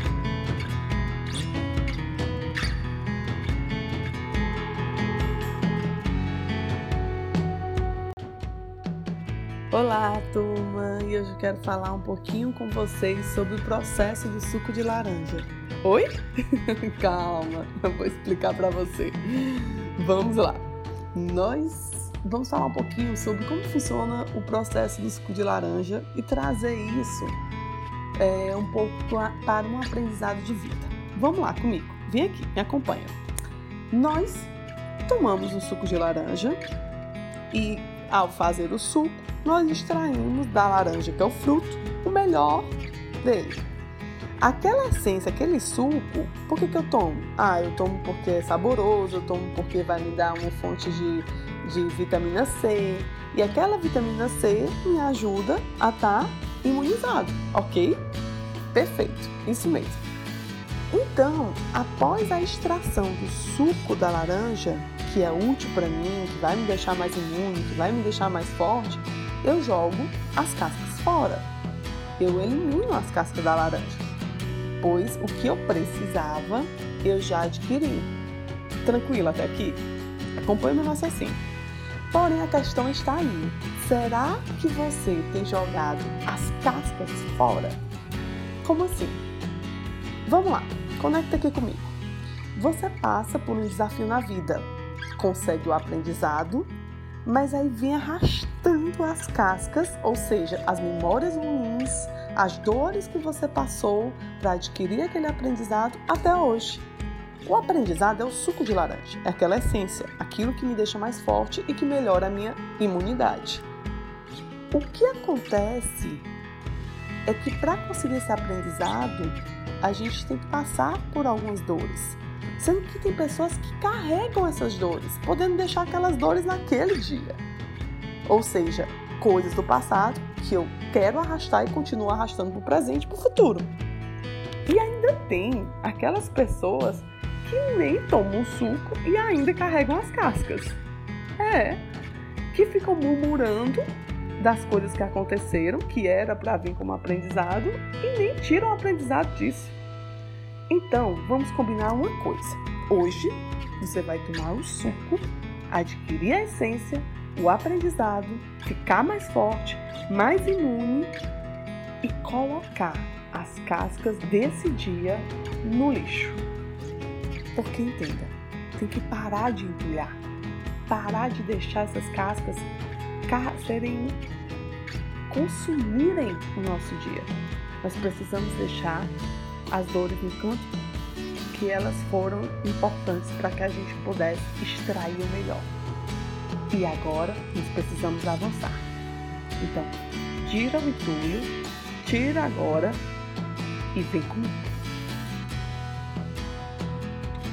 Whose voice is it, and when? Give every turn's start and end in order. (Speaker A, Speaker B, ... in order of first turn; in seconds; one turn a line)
Speaker A: 9.7-27.4
Speaker A: 28.2-33.2
Speaker A: 33.9-34.5
Speaker A: 35.0-36.6
Speaker A: 37.5-43.6
Speaker A: 44.4-58.0
Speaker A: 58.7-60.0
Speaker A: 60.9-71.5
Speaker A: 72.2-74.0
Speaker A: 74.8-78.1
Speaker A: 78.8-79.8
Speaker A: 80.4-81.4
Speaker A: 82.1-87.8
Speaker A: 88.6-89.2
Speaker A: 90.2-92.0
Speaker A: 92.5-96.7
Speaker A: 97.2-106.8
Speaker A: 107.4-113.6
Speaker A: 114.7-116.3
Speaker A: 117.2-127.4
Speaker A: 128.2-133.7
Speaker A: 134.7-140.8
Speaker A: 141.4-141.8
Speaker A: 142.5-143.8
Speaker A: 144.4-149.7
Speaker A: 150.7-161.1
Speaker A: 162.0-166.5
Speaker A: 167.6-170.2
Speaker A: 170.9-172.7
Speaker A: 173.3-174.2
Speaker A: 175.3-179.1
Speaker A: 179.7-180.7
Speaker A: 181.5-185.7
Speaker A: 186.7-188.9
Speaker A: 189.6-193.0
Speaker A: 193.9-194.7